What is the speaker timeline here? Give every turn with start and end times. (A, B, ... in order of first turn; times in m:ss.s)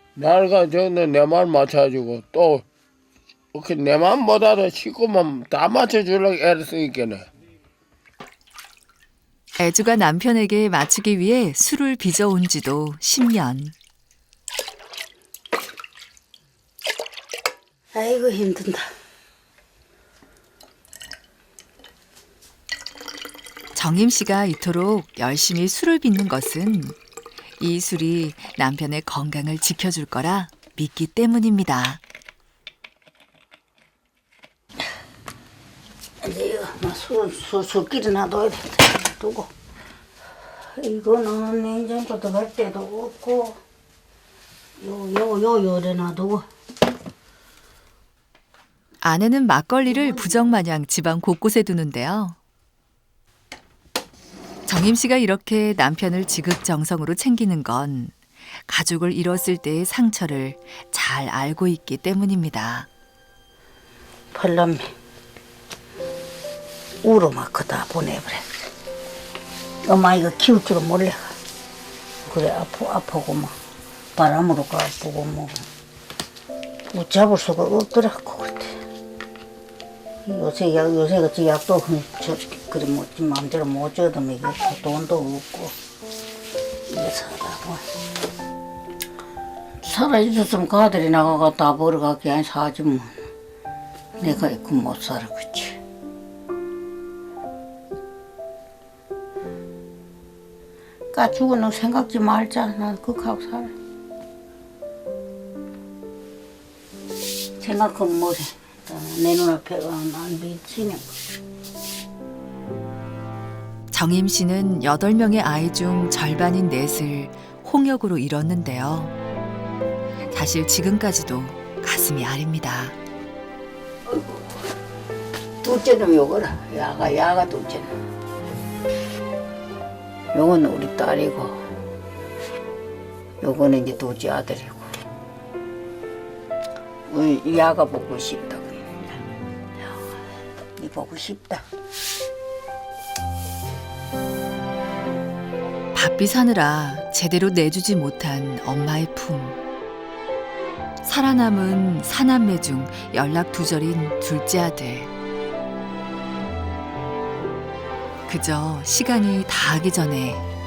0:00.2-0:02.6 A
0:03.5-0:07.2 A
0:09.6-0:13.7 B
0:17.9-0:18.8 C
0:23.7-0:27.0 B
0:27.6-0:32.0 B
0:36.2-0:39.5 C
0:40.8-0:43.6 C
0:44.8-0:46.4 C
0:49.0-0:52.4 B
0:49.9-0:50.5 C
0:54.7-1:02.9 B
1:04.3-1:04.9 C
1:07.0-1:08.7 C
1:09.8-1:11.3 C
1:12.2-1:13.5 C
1:14.2-1:15.6 C
1:16.9-1:18.8 C
1:20.2-1:25.7 C
1:26.9-1:27.8 C
1:29.8-1:33.2 C
1:34.2-1:35.8 C
1:41.1-1:43.7 C
1:47.6-1:51.1 C
1:53.9-1:59.1 B
2:00.3-2:03.0 B
2:05.6-2:07.9 C
2:10.3-2:11.6 C
2:13.4-2:14.9 C
2:17.1-2:19.2 C
2:20.8-2:21.6 C
2:25.9-2:29.6 B
2:31.0-2:35.1 B
2:38.3-2:40.4 B